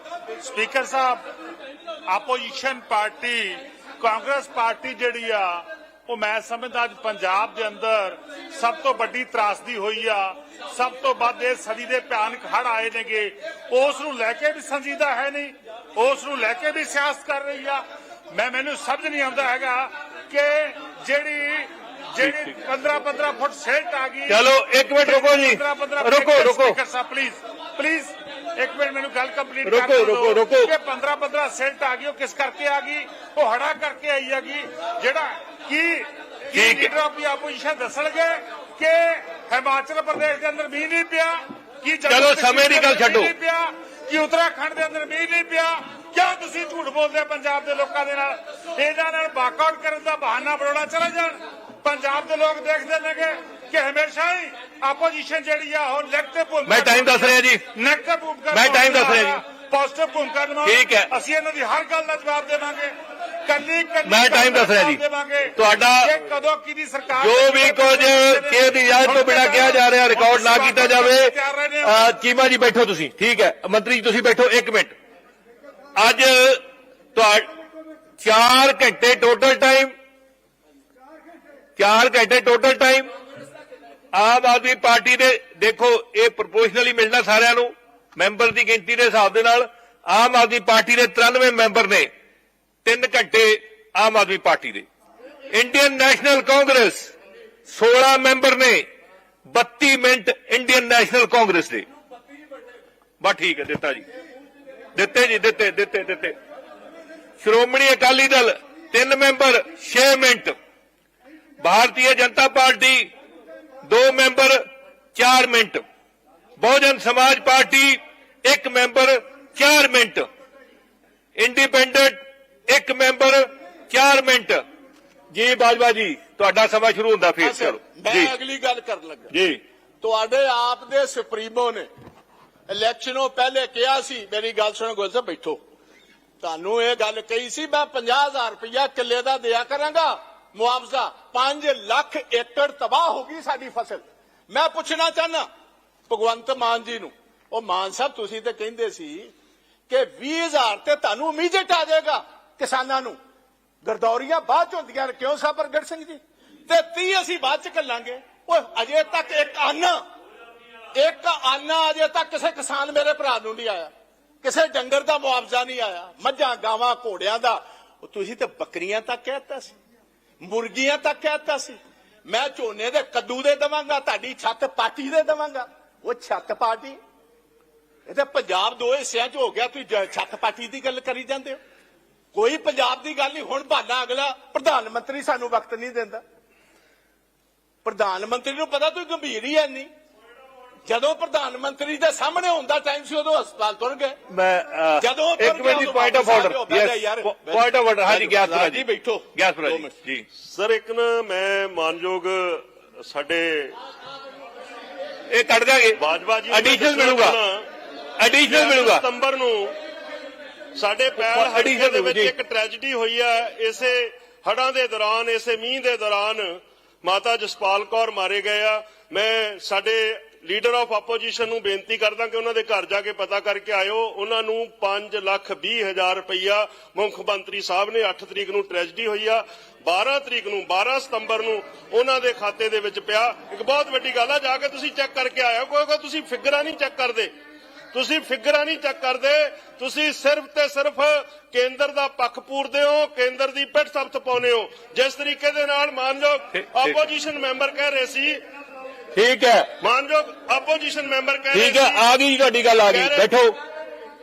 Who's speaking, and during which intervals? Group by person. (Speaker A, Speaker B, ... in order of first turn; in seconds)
Speaker A: 0.4-1.2, 2.1-13.4, 13.9-17.8, 18.4-21.7, 22.6-24.4, 25.1-62.9, 63.5-72.1
Speaker B: 4.0-4.5, 9.4-10.1, 10.7-11.3, 12.0-12.8, 22.2-23.8, 25.8-26.8, 30.1-30.4, 200.4-203.8, 206.0-207.7, 208.4-209.8, 210.8-237.3, 237.9-248.4, 249.8-252.1, 252.8-253.3
Speaker C: 22.2-22.6, 24.3-26.8, 29.6-30.7, 36.5-36.9, 42.1-43.3, 56.7-57.7, 58.5-59.4, 60.6-61.1, 64.0-65.0, 65.5-66.2, 67.2-74.9, 76.0-76.6, 77.2-77.5, 78.2-79.9, 81.8-83.1, 84.1-92.1, 92.8-94.9, 95.5-97.1, 97.7-98.9, 99.5-101.9, 103.2-104.0, 105.0-106.4, 107.4-110.6, 111.6-113.1, 113.8-114.6, 115.2-115.8, 116.6-120.3, 121.4-124.6, 125.3-128.3, 129.3-129.6, 194.3-198.8, 199.3-200.3, 205.3-207.4, 208.2-209.1, 211.2-212.3, 246.5-247.0, 249.1-249.7, 251.5-253.6
Speaker D: 127.4-129.3, 130.0-131.9, 132.7-135.6, 136.4-145.5, 146.1-149.3, 149.9-153.2, 153.8-160.0, 160.9-163.9, 164.4-169.7, 170.4-177.0, 178.1-181.6, 182.3-186.2, 187.8-189.9, 190.9-194.2, 195.0-199.9